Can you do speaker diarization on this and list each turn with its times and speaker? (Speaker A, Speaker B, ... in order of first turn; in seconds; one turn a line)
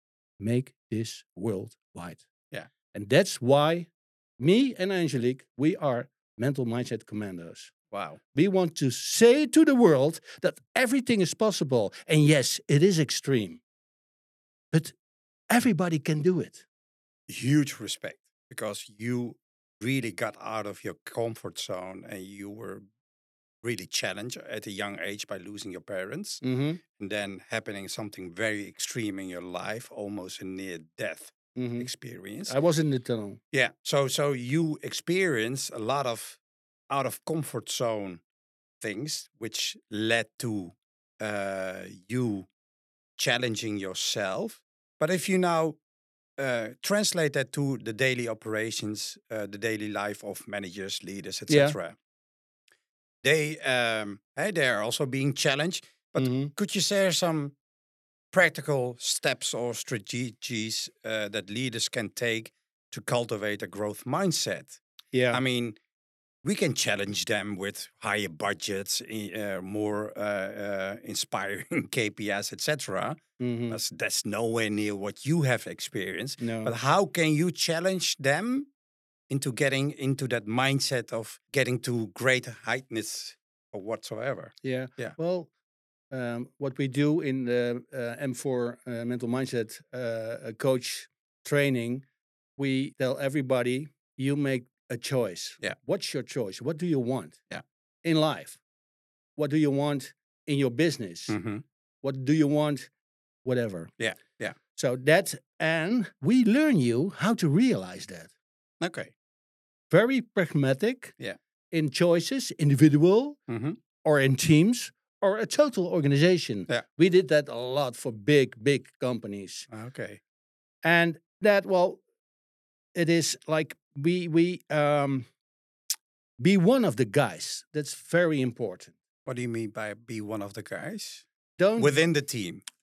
Speaker A: 0.4-2.2
Speaker A: 2.9-7.7
Speaker B: 7.9-8.2
Speaker A: 8.3-13.6
Speaker A: 15.5-16.6
Speaker B: 17.3-22.8
Speaker B: 23.6-26.4
Speaker A: 26.4-26.8
Speaker B: 27.0-32.5
Speaker A: 31.5-31.9
Speaker A: 32.5-33.4
Speaker B: 33.5-38.2
Speaker B: 38.8-42.5
Speaker B: 43.2-45.8
Speaker B: 46.4-52.0
Speaker A: 51.5-51.8
Speaker B: 53.2-57.5
Speaker A: 56.1-56.5
Speaker B: 58.3-64.8
Speaker A: 65.1-65.4
Speaker B: 65.3-65.8
Speaker B: 66.4-73.2
Speaker A: 73.4-73.8
Speaker B: 73.7-78.7
Speaker A: 76.4-76.7
Speaker B: 79.3-85.2
Speaker A: 84.6-85.5
Speaker A: 86.1-92.0
Speaker A: 92.6-97.4
Speaker A: 98.0-98.6
Speaker A: 99.4-101.4
Speaker B: 101.3-101.6
Speaker A: 102.0-102.9
Speaker A: 103.4-103.9
Speaker B: 104.0-104.5
Speaker A: 104.8-108.3
Speaker B: 108.8-109.1
Speaker A: 109.9-111.2
Speaker A: 111.7-113.4
Speaker B: 113.5-113.8
Speaker A: 114.0-119.7
Speaker B: 119.7-120.2
Speaker A: 120.8-122.0
Speaker A: 123.0-125.3
Speaker A: 126.4-128.9
Speaker B: 129.2-131.2
Speaker A: 131.6-132.0
Speaker B: 131.8-132.6